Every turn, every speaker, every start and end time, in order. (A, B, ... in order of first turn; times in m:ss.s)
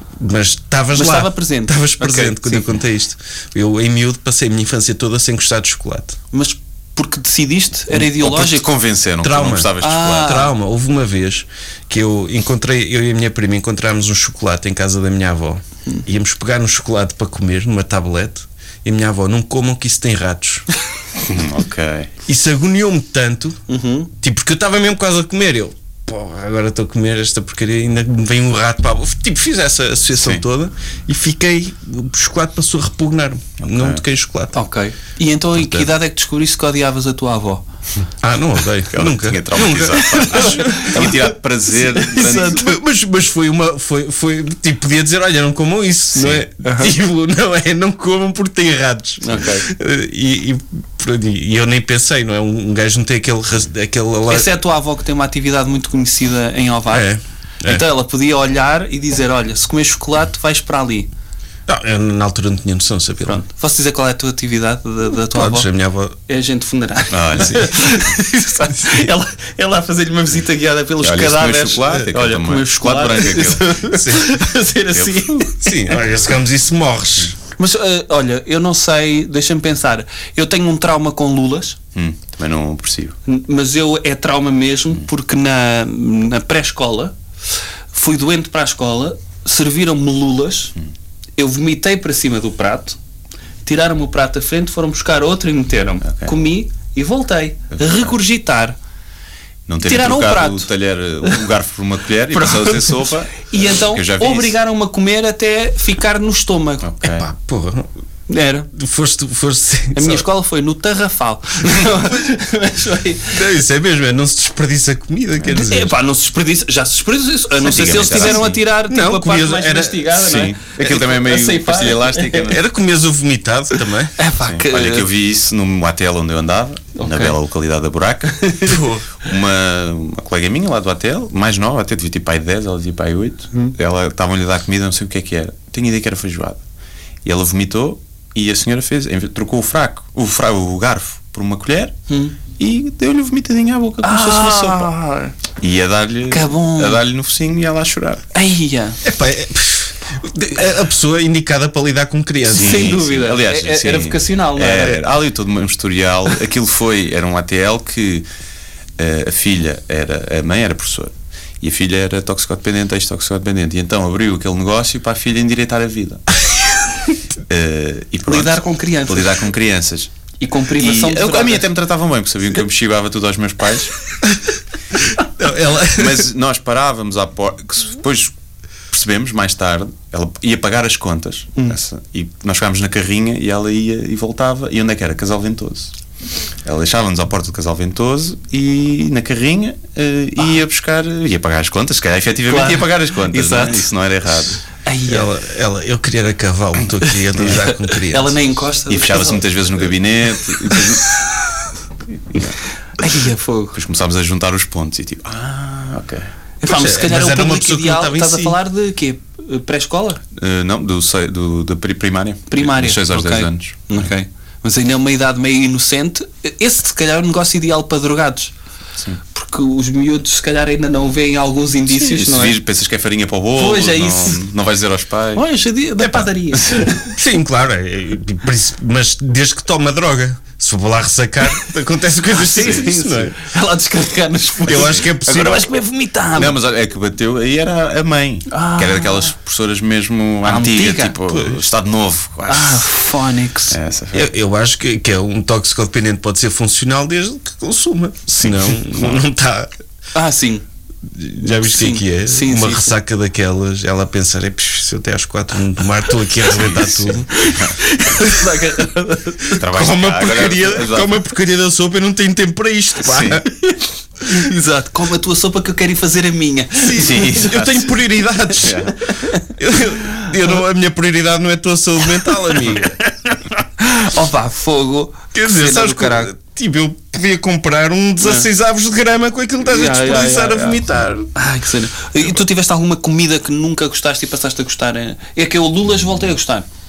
0:00.2-0:06.2 A
0:00.9-0:02.8 B
0:06.3-0:08.7 B
0:07.9-0:10.4 C
0:09.2-0:20.7 A
0:09.8-0:10.5 B
0:21.2-0:22.1 C
0:22.3-0:23.6 A
0:23.7-0:24.1 B
0:24.2-0:34.6 A
0:33.6-0:34.0 C
0:34.5-0:37.6 B
0:35.6-0:35.9 A
0:38.2-0:41.1 A
0:38.9-0:42.7 C
0:40.0-0:42.8 B
0:42.2-0:54.5 A
0:46.2-0:46.4 C
0:46.6-0:46.9 B
0:49.2-0:49.7 B
0:54.3-0:57.1 B
0:56.9-0:57.8 A
0:57.6-1:01.1 B
1:01.7-1:03.4 A
1:03.2-1:05.7 B
1:05.3-1:06.2 A
1:06.3-1:16.0 B
1:07.1-1:08.0 C
1:11.0-1:13.8 C
1:13.9-1:14.3 A
1:14.9-1:15.4 C
1:15.6-1:17.4 A
1:17.6-1:21.8 B
1:22.0-1:23.2 C
1:23.3-1:27.2 B
1:27.9-1:30.7 B
1:31.4-1:33.0 B
1:33.6-1:38.8 B
1:36.0-1:36.4 C
1:37.8-1:38.1 C
1:39.7-1:44.6 C
1:39.8-1:40.7 B
1:42.3-1:46.9 B
1:46.8-1:47.3 C
1:47.1-1:47.9 A
1:48.3-1:48.7 B
1:48.7-1:50.3 A
1:50.0-1:53.4 B
1:53.3-1:55.9 A
1:55.5-2:02.6 B
1:57.6-1:58.6 C
1:58.1-2:00.1 A
2:00.1-2:02.6 C
2:02.5-2:04.1 A
2:04.2-2:05.1 B
2:04.4-2:16.6 C
2:07.0-2:07.4 B
2:08.4-2:08.8 B
2:08.7-2:09.1 A
2:17.2-2:22.0 C
2:22.1-2:22.4 B
2:22.5-2:24.9 C
2:24.0-2:25.4 B
2:25.6-2:28.2 C
2:26.3-2:27.0 B
2:28.3-2:29.0 B
2:29.0-2:33.0 A
2:32.5-2:35.0 B
2:32.5-2:38.3 C
2:39.0-2:46.4 C
2:47.5-2:50.1 C
2:48.3-2:49.4 B
2:50.4-2:51.7 B
2:50.8-2:54.0 C
2:55.2-2:56.3 A
2:55.9-2:58.3 C
2:58.9-3:05.9 C
3:06.6-3:14.6 C
3:12.5-3:13.9 B
3:14.8-3:15.3 B
3:15.1-3:18.4 A
3:17.6-3:19.4 B
3:18.9-3:21.1 C
3:20.6-3:20.8 B
3:23.0-3:23.8 B
3:23.7-3:26.3 C
3:26.6-3:30.2 B
3:26.6-3:28.6 A
3:30.4-3:34.1 C
3:32.5-3:38.5 B
3:39.3-3:42.6 B
3:41.9-3:45.4 C
3:43.6-3:44.4 B
3:45.4-3:47.0 B
3:46.5-3:46.9 C
3:46.9-3:53.4 A
3:52.3-3:56.6 B
3:54.6-3:55.7 A
3:54.7-3:55.1 C
3:56.4-4:02.9 C
3:58.5-3:59.3 B
4:00.4-4:01.2 B
4:01.3-4:01.6 A
4:02.5-4:03.8 B
4:03.7-4:04.3 C
4:04.1-4:09.7 A
4:08.7-4:09.2 C
4:10.2-4:10.6 B
4:11.1-4:17.3 A
4:11.4-4:13.0 B
4:16.5-4:17.8 C
4:17.3-4:19.6 B
4:19.5-4:21.2 C
4:19.6-4:23.5 A
4:23.0-4:23.4 C
4:23.6-4:27.6 B
4:26.8-4:28.9 A
4:27.0-4:28.0 C
4:28.6-4:29.0 C
4:29.2-4:29.4 B
4:29.6-4:33.3 A
4:32.2-4:33.0 B
4:33.8-4:36.3 B
4:35.3-4:41.3 A
4:38.2-4:38.5 B
4:39.6-4:40.8 B
4:41.4-4:46.7 B